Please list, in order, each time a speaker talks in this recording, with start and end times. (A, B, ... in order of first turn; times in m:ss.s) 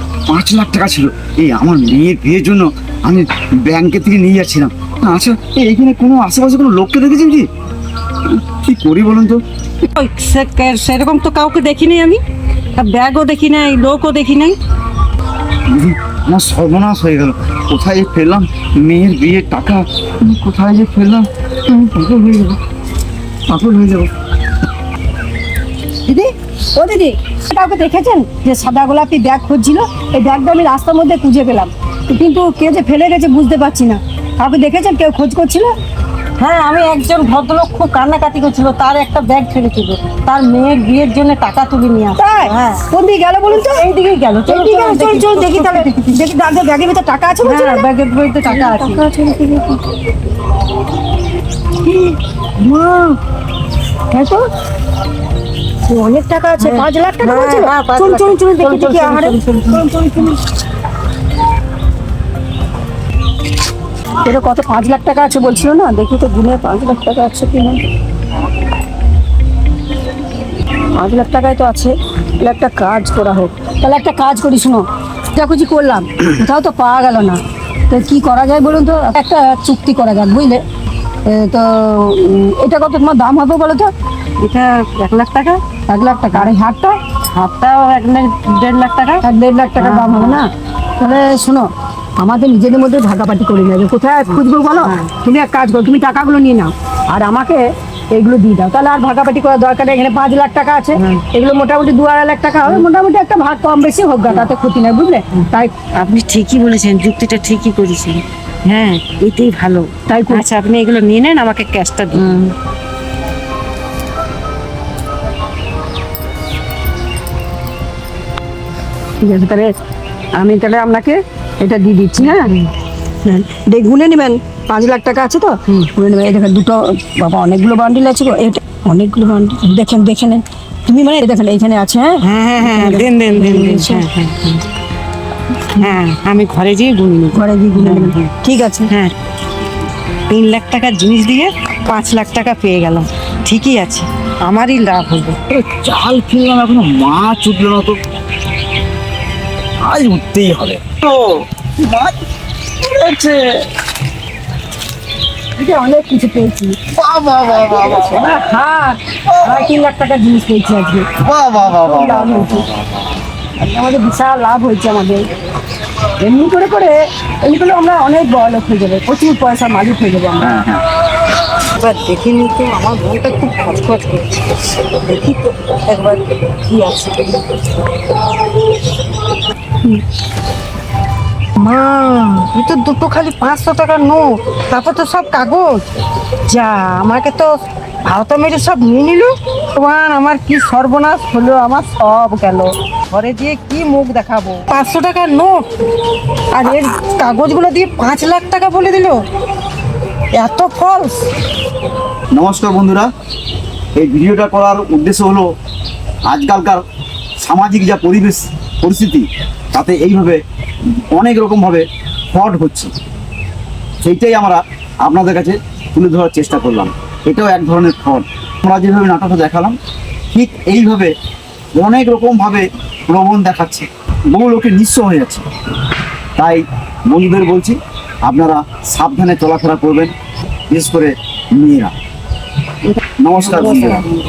0:00.3-0:07.5 A
0:08.2-0:09.4 A
0:09.8-0:12.2 B
0:12.8-0:14.6 B
0:15.7-0:22.6 A
0:23.5-0:24.1 A
0:26.1-0:35.7 C
0:36.4-0:42.8 B
0:42.2-0:43.8 C
0:43.5-0:46.2 B
0:44.5-0:47.8 C
0:47.4-0:49.0 B
0:48.4-0:49.8 C
0:51.8-0:53.2 B
0:54.1-0:54.5 C
0:55.9-1:00.3 C
0:56.6-1:00.3 B
1:04.2-1:07.8 C
1:11.0-1:14.8 C
1:15.3-1:20.6 C
1:21.3-1:23.9 C
1:24.4-1:25.6 B
1:25.9-1:27.0 C
1:27.3-1:29.2 B
1:29.2-1:45.7 C
1:29.8-1:30.4 B
1:34.3-1:35.1 B
1:41.0-1:41.2 B
1:45.3-1:52.5 B
1:50.1-1:50.4 C
1:59.2-1:59.7 C
2:00.4-2:02.5 C
2:02.2-2:02.7 B
2:03.2-2:14.0 C
2:12.2-2:14.6 B
2:15.7-2:18.3 B
2:17.3-2:18.9 C
2:20.3-2:25.4 B
2:25.5-2:28.0 A
2:29.8-2:32.1 A
2:32.8-2:33.7 A
2:35.6-2:36.8 C
2:36.9-2:38.3 A
2:37.7-2:41.1 C
2:39.3-2:39.7 A
2:41.2-2:43.0 A
2:41.6-2:42.7 C
2:43.6-2:45.3 C
2:46.2-2:50.5 C
2:50.4-2:50.8 A
2:51.8-2:57.7 B
3:01.6-3:05.9 B
3:06.4-3:15.6 B
3:16.5-3:19.2 B
3:20.3-3:21.3 B
3:22.3-3:23.1 A
3:24.0-3:25.5 A
3:26.3-3:26.8 A
3:27.4-3:32.9 A
3:34.0-3:39.8 A
3:40.3-3:41.1 A
3:41.7-3:45.4 A
3:46.4-3:50.1 A
3:50.7-3:51.9 A
3:53.2-3:54.0 A
3:53.4-3:54.0 C